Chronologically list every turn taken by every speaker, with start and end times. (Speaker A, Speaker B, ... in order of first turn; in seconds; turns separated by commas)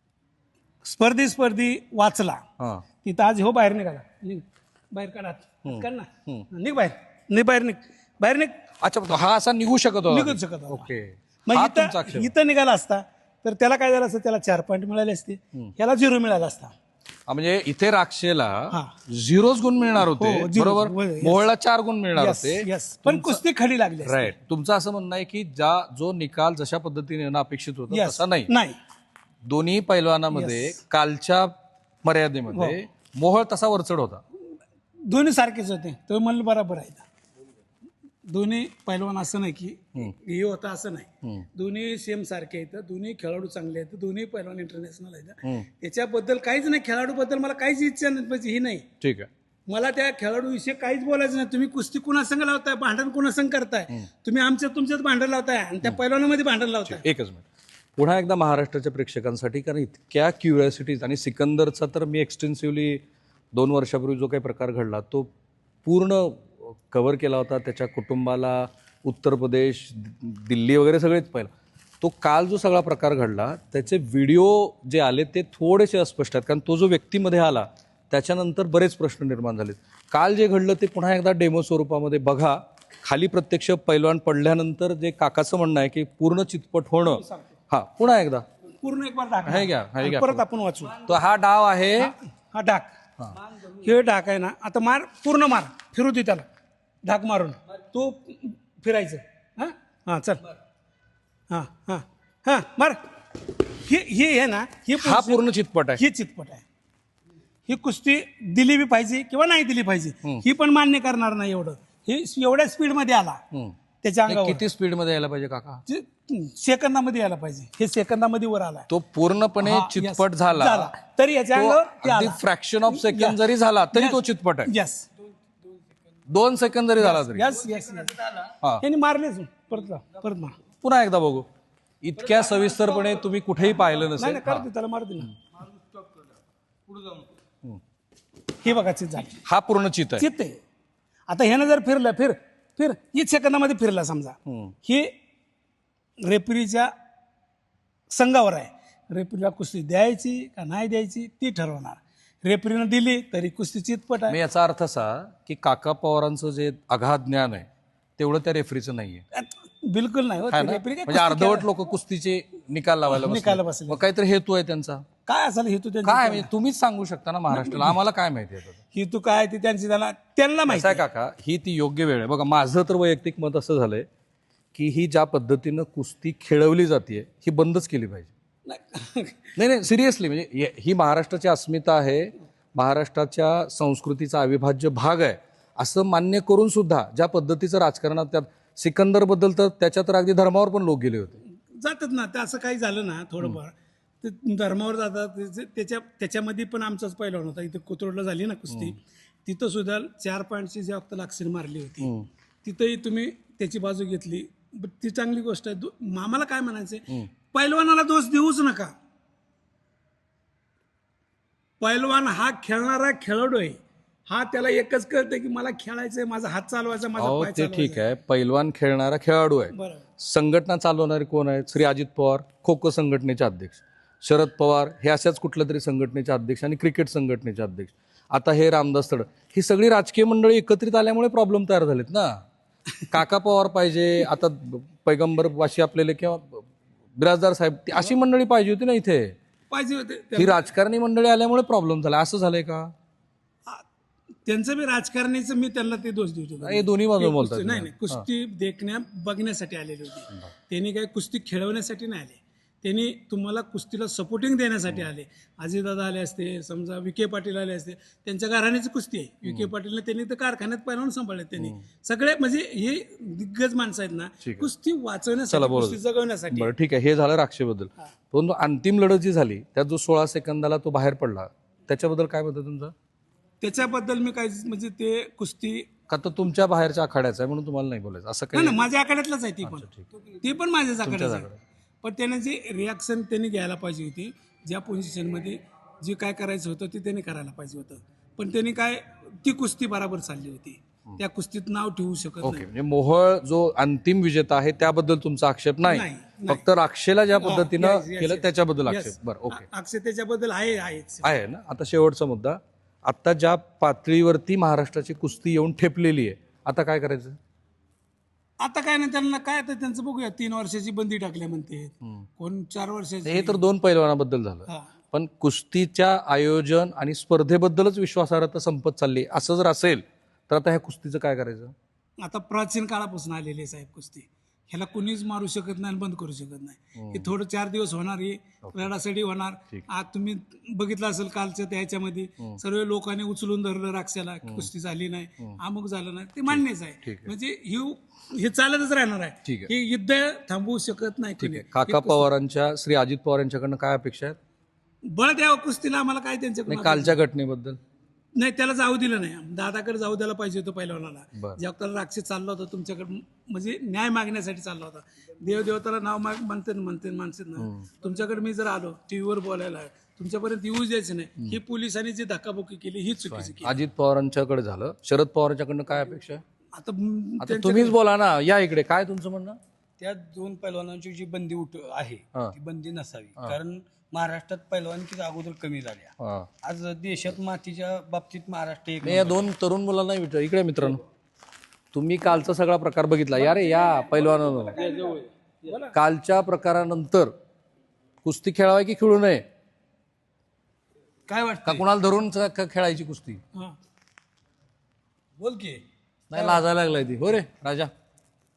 Speaker A: 0.8-2.4, Speaker B: 2.6-2.8, Speaker A: 3.0-8.5, Speaker B: 5.6-6.5, Speaker B: 8.8-12.3, Speaker A: 10.1-10.9, Speaker A: 11.4-16.7, Speaker B: 17.3-23.4, Speaker A: 20.0-21.5, Speaker A: 22.1-24.3, Speaker B: 24.0-28.5, Speaker A: 27.9-28.8, Speaker B: 29.4-34.2, Speaker A: 30.3-30.8, Speaker A: 32.5-32.8, Speaker A: 35.1-37.0, Speaker A: 38.3-48.9, Speaker B: 49.0-49.3, Speaker A: 49.7-57.0, Speaker B: 56.9-57.4, Speaker B: 58.0-63.0, Speaker B: 63.5-65.3, Speaker B: 65.8-71.5, Speaker B: 72.0-88.4, Speaker A: 87.1-87.4, Speaker A: 88.8-91.0, Speaker B: 89.5-90.4, Speaker B: 91.0-92.1, Speaker A: 92.0-92.9, Speaker C: 93.3-93.9, Speaker A: 93.8-96.4, Speaker A: 97.0-100.4, Speaker A: 101.5-105.5, Speaker B: 105.0-106.0, Speaker A: 106.0-106.6, Speaker A: 107.7-113.4, Speaker A: 114.0-114.6, Speaker B: 114.3-115.8, Speaker A: 115.9-118.9, Speaker B: 118.9-120.9, Speaker A: 119.6-123.4, Speaker B: 121.5-124.7, Speaker A: 123.9-125.1, Speaker B: 126.3-127.5, Speaker A: 127.0-128.2, Speaker C: 127.5-128.5, Speaker A: 128.8-130.6, Speaker B: 130.8-131.5, Speaker B: 132.0-134.6, Speaker C: 132.2-133.1, Speaker A: 134.2-135.3, Speaker C: 135.6-136.2, Speaker C: 136.9-137.3, Speaker A: 138.6-139.4, Speaker B: 139.4-140.3, Speaker A: 140.2-140.6, Speaker A: 141.3-145.1, Speaker B: 144.5-144.7, Speaker A: 146.2-146.9, Speaker A: 148.1-154.4, Speaker B: 154.3-159.2, Speaker A: 159.3-161.7, Speaker B: 160.5-165.0, Speaker A: 163.1-164.0, Speaker A: 165.2-166.5, Speaker B: 166.0-168.8, Speaker A: 167.5-168.0, Speaker A: 168.9-171.0, Speaker B: 170.7-174.1, Speaker B: 174.7-178.3, Speaker A: 178.7-179.5, Speaker B: 179.6-191.4, Speaker A: 191.7-202.1, Speaker B: 202.0-202.3, Speaker A: 202.6-208.9, Speaker A: 211.8-218.0, Speaker B: 217.2-232.4, Speaker A: 219.7-220.0, Speaker B: 233.1-239.4, Speaker A: 239.7-240.7, Speaker B: 240.3-242.9, Speaker A: 244.4-266.7, Speaker B: 246.6-248.2, Speaker B: 264.4-264.7, Speaker B: 265.5-266.0, Speaker B: 266.5-272.9, Speaker A: 273.6-275.9, Speaker B: 276.1-278.8, Speaker A: 278.5-279.9, Speaker B: 279.6-280.0, Speaker A: 280.4-281.5, Speaker B: 281.0-281.6, Speaker A: 282.0-292.6, Speaker B: 292.4-299.6, Speaker A: 295.8-296.6, Speaker A: 297.4-301.3, Speaker B: 301.2-307.4, Speaker A: 308.6-313.6, Speaker B: 313.2-321.7, Speaker A: 322.2-342.3, Speaker B: 326.9-327.3, Speaker B: 336.5-337.3, Speaker B: 339.4-339.7, Speaker B: 341.4-344.4, Speaker A: 345.1-347.2, Speaker B: 346.7-347.8, Speaker A: 348.4-363.8, Speaker B: 351.4-351.6, Speaker B: 357.6-357.9, Speaker B: 363.3-366.4, Speaker A: 366.7-368.0, Speaker B: 367.4-369.6, Speaker C: 370.0-379.5, Speaker B: 376.2-376.5, Speaker B: 379.0-381.0, Speaker B: 381.9-384.8, Speaker A: 383.4-385.9, Speaker C: 384.7-385.8, Speaker B: 385.9-387.3, Speaker B: 388.2-389.4, Speaker C: 391.3-391.8, Speaker B: 391.6-393.4, Speaker C: 395.4-395.8, Speaker B: 396.3-397.9